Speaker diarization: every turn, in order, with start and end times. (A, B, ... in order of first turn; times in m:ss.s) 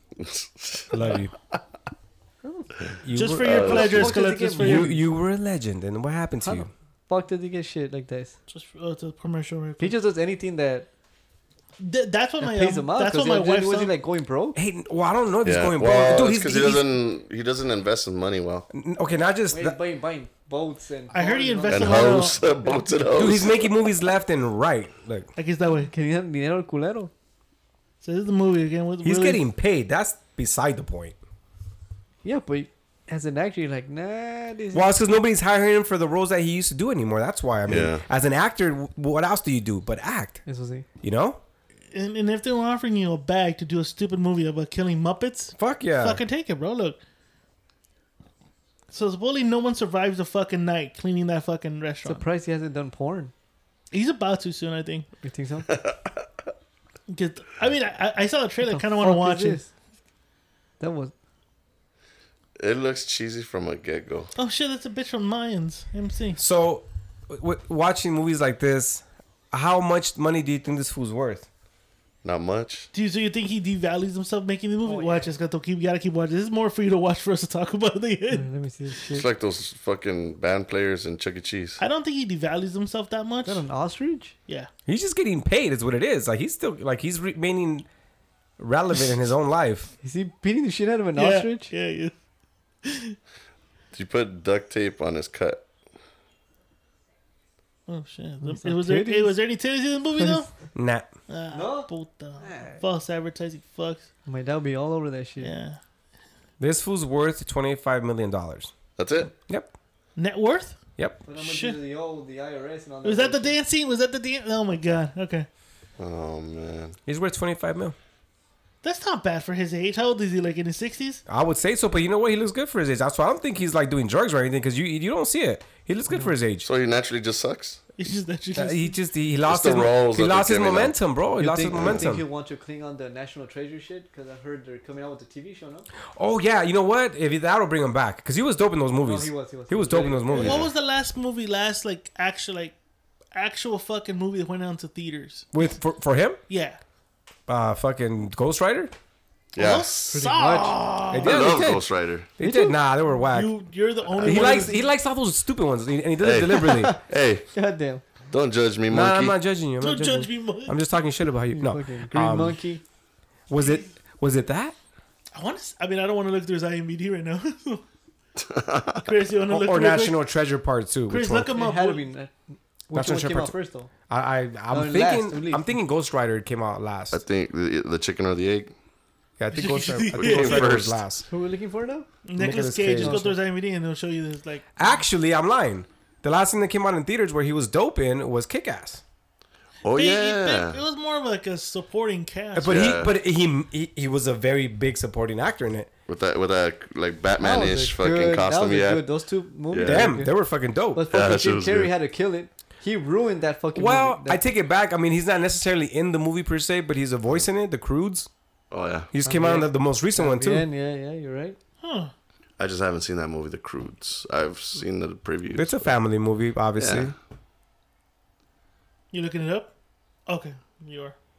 0:00.2-0:01.2 A
0:00.9-0:01.3 B
0:02.4-0:02.7 C
0:03.0-0:06.7 B
0:03.1-0:05.0 D
0:03.4-0:04.1 A
0:03.7-0:05.0 C
0:06.4-0:08.4 C
0:08.5-0:10.0 D
0:09.8-0:10.9 C
0:11.8-0:13.9 D
0:12.4-0:14.6 C
0:14.6-0:16.8 B
0:15.4-0:18.7 A
0:18.7-0:19.8 B
0:19.5-0:22.8 C
0:21.1-0:22.8 D
0:21.7-0:23.6 A
0:23.2-0:25.3 B
0:25.4-0:25.9 D
0:25.9-0:27.1 C
0:28.0-0:29.4 D
0:29.0-0:31.2 B
0:32.2-0:34.9 C
0:34.7-0:40.4 B
0:37.7-0:38.0 A
0:40.5-0:40.9 C
0:41.0-0:41.4 B
0:41.9-0:47.0 D
0:45.6-0:46.2 B
0:48.9-0:52.2 D
0:52.0-0:53.3 C
0:53.9-0:55.1 D
0:55.2-0:55.7 C
0:55.7-0:56.1 A
0:57.1-0:59.6 D
0:58.6-0:59.7 C
1:00.8-1:01.1 C
1:02.6-1:04.3 A
1:04.4-1:06.4 D
1:06.4-1:11.5 B
1:12.2-1:12.9 A
1:12.9-1:18.5 D
1:14.9-1:15.3 C
1:18.3-1:19.3 C
1:19.1-1:21.8 A
1:21.8-1:23.6 D
1:23.4-1:24.3 C
1:24.9-1:27.9 B
1:28.6-1:29.9 B
1:30.0-1:31.7 C
1:31.2-1:32.1 D
1:32.8-1:33.2 D
1:33.9-1:35.7 A
1:37.9-1:40.5 D
1:38.4-1:39.4 C
1:40.2-1:40.5 C
1:40.8-1:41.1 B
1:41.3-1:44.1 D
1:41.5-1:41.9 C
1:42.4-1:42.8 C
1:44.3-1:45.5 C
1:45.4-1:45.8 D
1:46.6-1:48.7 B
1:49.0-1:49.3 A
1:50.2-1:50.8 D
1:51.3-1:53.6 C
1:51.4-1:51.8 D
1:53.0-1:55.5 D
1:56.0-1:57.0 A
1:57.1-1:58.0 B
1:58.8-2:01.2 D
2:01.3-2:06.7 B
2:06.6-2:07.8 A
2:08.0-2:08.9 D
2:08.6-2:12.2 B
2:09.5-2:11.0 A
2:11.4-2:15.9 C
2:11.7-2:12.1 A
2:16.2-2:20.6 B
2:19.0-2:20.6 C
2:20.3-2:22.8 D
2:20.4-2:20.7 A
2:23.3-2:25.5 D
2:25.5-2:26.4 B
2:26.5-2:26.8 D
2:27.5-2:28.9 B
2:29.6-2:30.1 A
2:29.6-2:31.6 D
2:30.1-2:30.8 C
2:31.1-2:33.5 B
2:31.2-2:32.3 A
2:32.4-2:32.7 C
2:33.1-2:34.8 D
2:34.2-2:36.9 B
2:34.4-2:34.6 C
2:36.2-2:37.5 A
2:36.7-2:37.0 C
2:37.5-2:38.0 C
2:38.3-2:39.4 A
2:38.9-2:42.6 B
2:39.8-2:40.8 D
2:41.5-2:42.8 C
2:43.5-2:44.8 B
2:45.4-2:47.8 D
2:48.4-2:49.1 A
2:49.0-2:50.2 D
2:49.5-2:51.5 B
2:51.1-2:52.0 D
2:51.5-2:52.4 C
2:52.9-2:53.9 C
2:52.9-2:53.5 B
2:54.1-2:57.2 B
2:54.7-2:55.7 C
2:57.1-2:58.7 A
2:59.4-3:01.2 B
2:59.5-3:00.8 D
3:00.1-3:01.0 A
3:01.3-3:02.1 C
3:02.2-3:04.8 D
3:02.4-3:03.2 B
3:02.9-3:03.4 C
3:04.8-3:09.0 B
3:09.8-3:10.8 A
3:09.9-3:12.8 D
3:12.6-3:15.9 B
3:12.7-3:13.1 A
3:16.1-3:19.1 A
3:17.4-3:20.3 C
3:19.7-3:20.2 A
3:19.8-3:21.0 B
3:20.9-3:24.4 C
3:21.1-3:21.9 A
3:23.8-3:28.3 B
3:28.7-3:29.1 A
3:29.1-3:30.7 B
3:29.2-3:31.6 C
3:31.8-3:32.1 D
3:32.6-3:35.9 A
3:35.5-3:37.1 B
3:36.8-3:37.1 A
3:39.1-3:39.7 D
3:40.3-3:41.2 D